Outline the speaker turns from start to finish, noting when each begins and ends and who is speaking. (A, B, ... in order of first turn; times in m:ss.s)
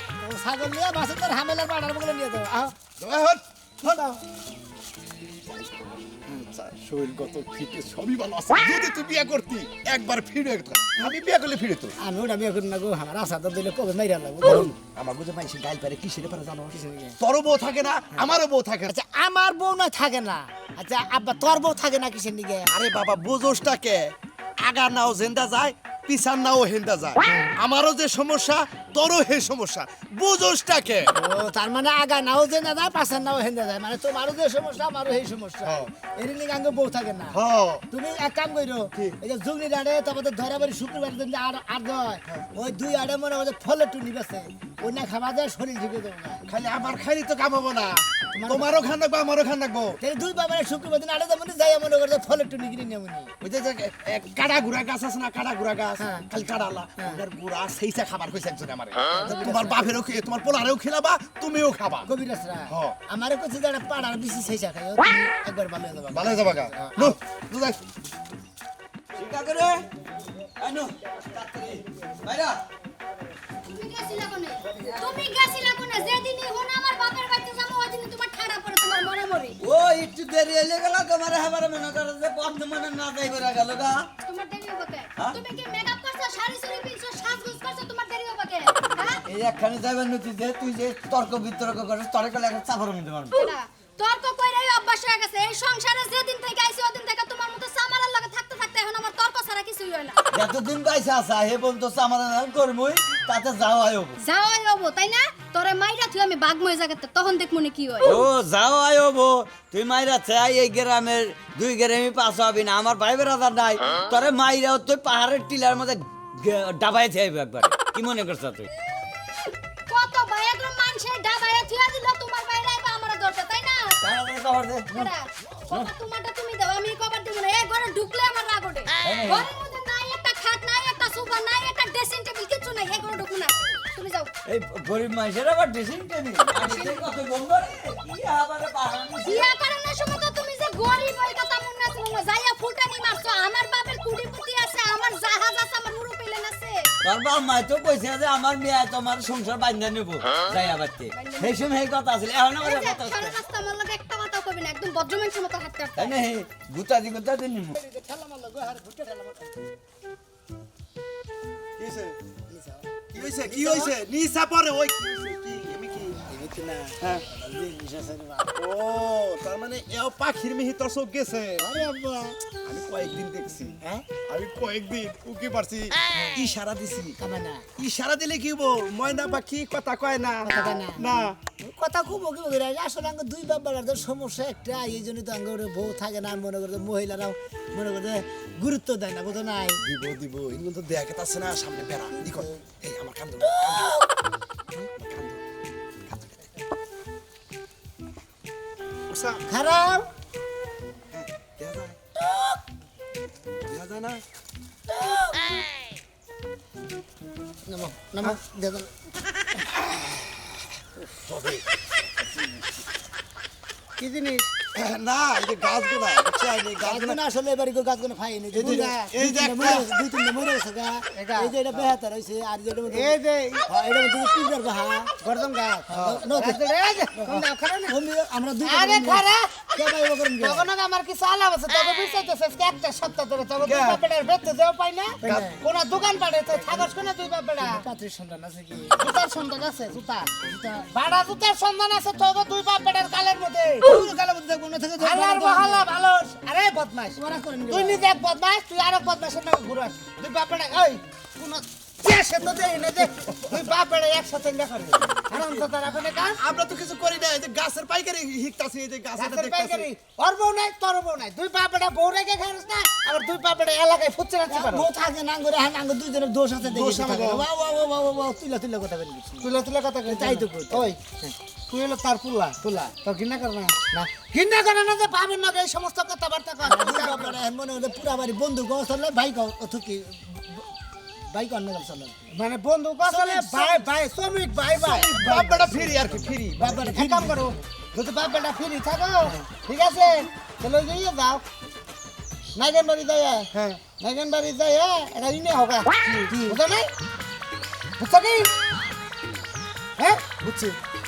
0:00.2-0:02.7 A
0:03.0-0:04.2 B
0:05.5-0:12.0 B
0:12.0-0:14.7 A
0:14.4-0:18.9 B
0:16.7-0:17.2 A
0:18.9-0:22.7 A
0:22.7-0:31.1 B
0:31.1-0:37.4 A
0:35.6-0:35.9 B
0:37.3-0:37.8 B
0:37.9-0:46.4 A
0:46.4-0:50.0 B
0:48.3-0:48.7 A
0:50.0-0:53.3 A
0:53.4-1:02.1 B
0:56.0-0:56.3 A
0:59.2-0:59.8 A
1:02.0-1:07.2 A
1:02.7-1:03.0 B
1:06.1-1:07.8 B
1:09.1-1:09.9 C
1:10.6-1:12.6 C
1:13.7-1:19.6 D
1:19.6-1:24.1 C
1:24.2-1:29.2 D
1:29.2-1:33.4 C
1:33.3-1:40.2 D
1:40.3-1:44.2 C
1:44.2-1:48.2 D
1:48.0-1:58.7 C
1:59.9-2:04.0 D
2:04.0-2:05.1 C
2:04.9-2:14.3 D
2:09.0-2:09.5 C
2:14.4-2:19.5 C
2:16.6-2:17.0 D
2:19.2-2:26.9 D
2:27.0-2:33.4 C
2:31.1-2:31.6 D
2:32.6-2:36.2 D
2:36.0-2:37.8 C
2:37.7-2:39.6 A
2:41.8-2:42.2 B
2:42.5-2:43.9 A
2:43.1-2:46.2 B
2:46.3-2:48.5 A
2:47.0-2:47.2 B
2:48.5-2:51.7 B
2:51.6-2:52.4 A
2:52.6-2:57.2 B
2:57.2-2:57.6 A
2:57.8-3:01.4 B
3:00.4-3:01.0 A
3:01.6-3:09.8 A
3:09.8-3:13.9 B
3:12.2-3:12.6 A
3:13.4-3:14.0 A
3:14.9-3:15.4 B
3:16.0-3:16.5 B
3:19.1-3:19.4 B
3:19.5-3:20.1 A
3:21.1-3:22.0 B
3:22.2-3:22.6 A
3:23.6-3:24.2 B
3:24.9-3:25.3 A
3:27.6-3:28.9 A
3:31.3-3:31.6 B
3:34.0-3:34.5 E
3:34.7-3:37.2 B
3:36.8-3:45.2 A
3:38.5-3:39.9 B
3:41.1-3:41.5 E
3:42.9-3:43.7 E
3:45.2-3:47.9 E
3:45.9-3:46.2 B
3:46.0-3:46.6 A
3:47.2-3:50.7 A
3:48.6-3:49.7 E
3:50.4-3:57.8 E
3:53.6-3:54.0 B
3:55.2-3:55.6 A
3:56.6-3:56.9 A
3:57.6-3:59.0 A
3:59.0-4:04.3 E
4:03.9-4:05.9 A
4:04.9-4:16.4 E
4:07.2-4:08.1 A
4:13.5-4:13.7 B
4:15.3-4:15.6 A
4:16.4-4:19.9 B
4:19.2-4:24.9 E
4:24.5-4:29.5 A
4:26.6-4:27.4 B
4:29.4-4:31.0 E
4:30.0-4:31.3 A
4:31.7-4:37.4 E
4:36.6-4:40.7 A
4:41.3-4:42.3 A
4:42.3-4:46.0 E
4:43.0-4:43.8 A
4:44.9-4:46.9 B
4:46.6-4:47.5 A
4:46.7-4:51.4 E
4:52.6-4:56.9 E
4:56.2-4:56.6 A
4:58.0-4:58.5 E
5:00.0-5:00.8 E